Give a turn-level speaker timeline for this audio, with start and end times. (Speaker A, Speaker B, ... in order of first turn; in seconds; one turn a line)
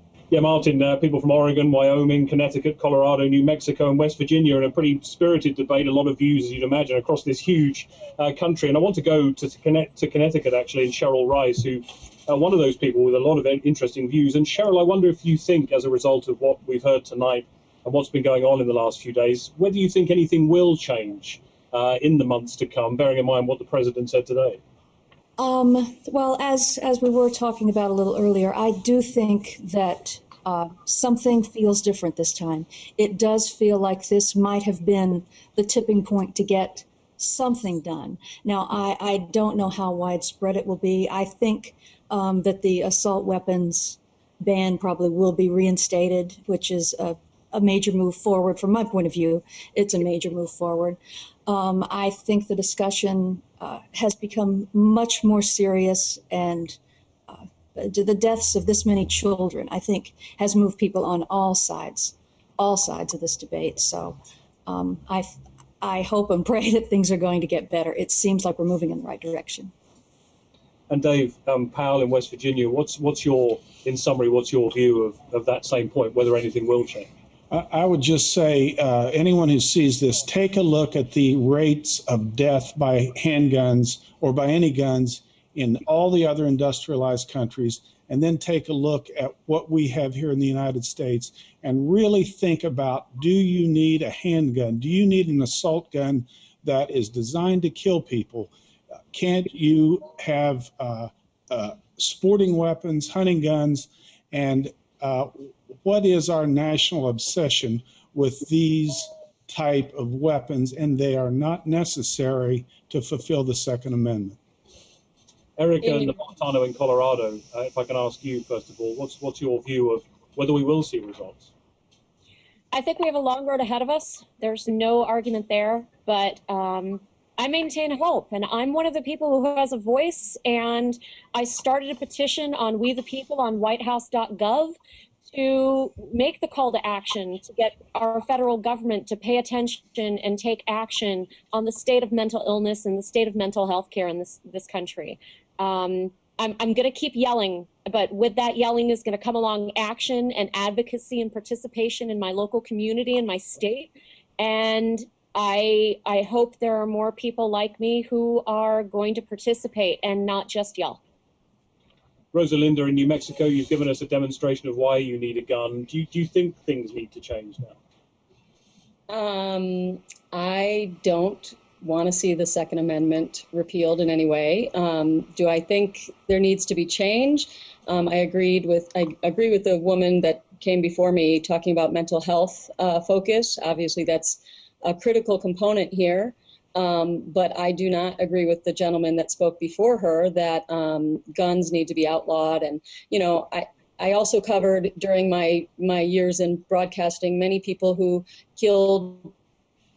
Speaker A: 0.3-24.6
Speaker B: 25.4-56.8
Speaker B: 57.3-69.7
Speaker A: 70.9-77.1
Speaker C: 77.5-98.5
Speaker C: 99.1-114.4
Speaker A: 115.5-121.5
Speaker D: 122.7-161.0
Speaker A: 162.3-167.8
Speaker E: 169.1-199.3